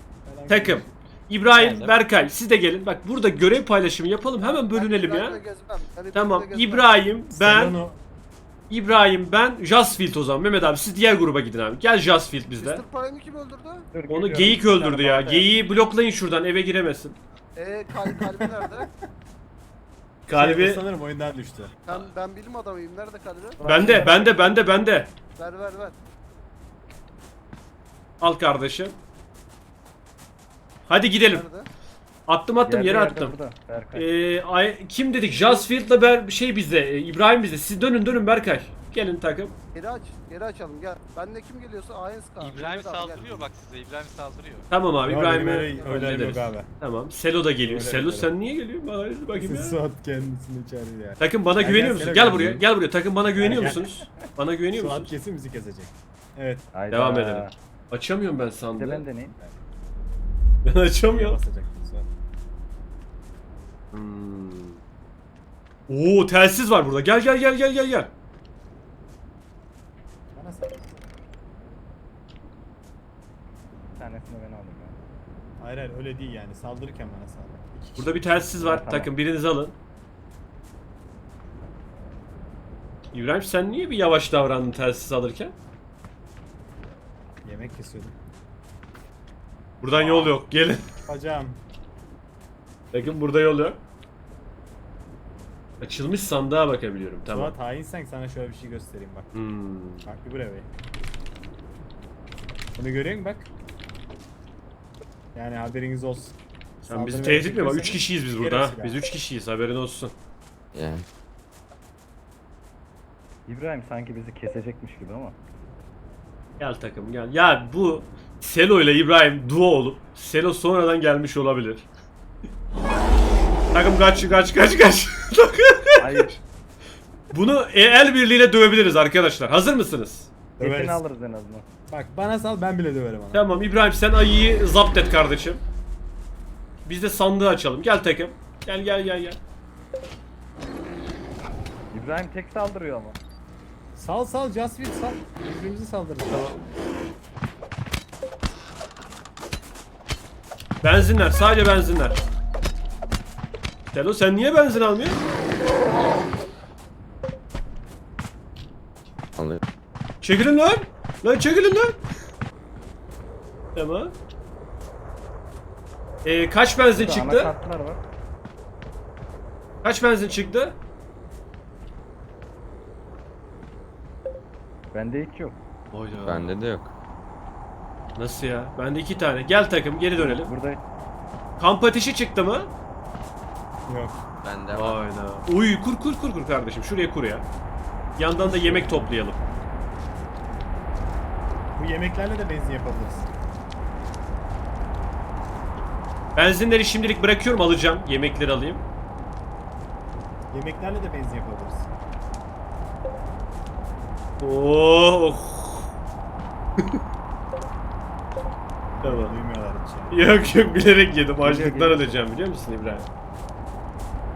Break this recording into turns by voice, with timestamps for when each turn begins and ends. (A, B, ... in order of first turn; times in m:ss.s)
0:00.2-0:00.9 A
0:00.5-0:05.4 B
0:01.5-0:01.9 C
0:04.4-0:06.9 D
0:06.1-0:07.8 B
0:07.3-0:08.0 A
0:08.7-0:12.8 B
0:12.6-0:13.9 D
0:13.9-0:15.6 E
0:14.1-0:17.2 B
0:17.6-0:18.9 D
0:18.0-0:18.9 A
0:20.3-0:20.8 B
0:20.3-0:21.8 A
0:21.8-0:23.6 D
0:23.6-0:24.4 E
0:23.6-0:25.1 B
0:25.4-0:26.0 D
0:28.2-0:29.0 B
0:30.8-0:31.4 B
0:31.2-0:31.7 D
0:32.3-0:33.3 B
0:32.6-0:34.1 E
0:33.9-0:39.5 B
0:35.3-0:35.7 D
0:39.7-0:43.5 D
0:42.4-0:44.7 C
0:44.7-0:49.8 B
0:45.0-0:46.7 A
0:47.6-0:48.3 A
0:49.3-0:52.6 A
0:51.2-0:55.1 B
0:53.4-0:53.9 A
0:54.7-0:56.7 A
0:56.7-0:57.5 E
0:56.9-0:59.0 B
0:58.8-0:59.3 E
1:00.6-1:01.4 B
1:01.1-1:02.1 A
1:03.9-1:04.8 B
1:05.9-1:08.1 B
1:10.3-1:11.0 A
1:14.0-1:15.0 E
1:15.6-1:18.4 A
1:18.0-1:19.7 B
1:18.6-1:19.1 E
1:23.1-1:25.5 B
1:27.4-1:28.1 A
1:29.8-1:30.9 B
1:29.9-1:30.4 A
1:31.0-1:31.6 A
1:32.9-1:33.8 B
1:35.8-1:37.6 B
1:37.3-1:39.3 A
1:39.3-1:40.0 B
1:40.0-1:40.7 A
1:42.8-1:43.5 A
1:45.3-1:46.3 A
1:46.8-1:50.1 B
1:46.9-1:49.0 A
1:50.7-1:51.0 F
1:53.5-1:55.4 E
1:56.6-2:01.9 B
2:03.7-2:06.4 B
2:06.0-2:06.4 E
2:07.3-2:10.3 B
2:10.6-2:11.0 A
2:10.6-2:11.6 E
2:11.9-2:13.4 A
2:13.3-2:15.6 B
2:16.8-2:19.4 B
2:21.9-2:23.2 E
2:23.9-2:26.5 A
2:26.3-2:26.7 B
2:30.8-2:32.2 B
2:33.9-2:35.2 B
2:39.4-2:39.6 F
2:40.2-2:42.0 B
2:43.7-2:44.1 B
2:46.2-2:47.5 B
2:46.9-2:48.0 E
2:49.8-2:50.8 B
2:54.9-2:55.6 E
2:55.9-2:56.6 B
2:56.2-2:56.9 F
2:58.1-3:00.5 B
3:00.2-3:00.8 E
3:01.6-3:02.7 B
3:03.8-3:04.2 A
3:04.4-3:05.0 F
3:04.7-3:07.4 B
3:08.2-3:09.4 B
3:08.4-3:09.6 A
3:11.8-3:13.3 A
3:16.3-3:18.8 B
3:20.5-3:21.9 A
3:24.4-3:25.9 B
3:29.0-3:30.3 A
3:29.0-3:29.3 B
3:30.1-3:33.1 B
3:31.4-3:32.1 E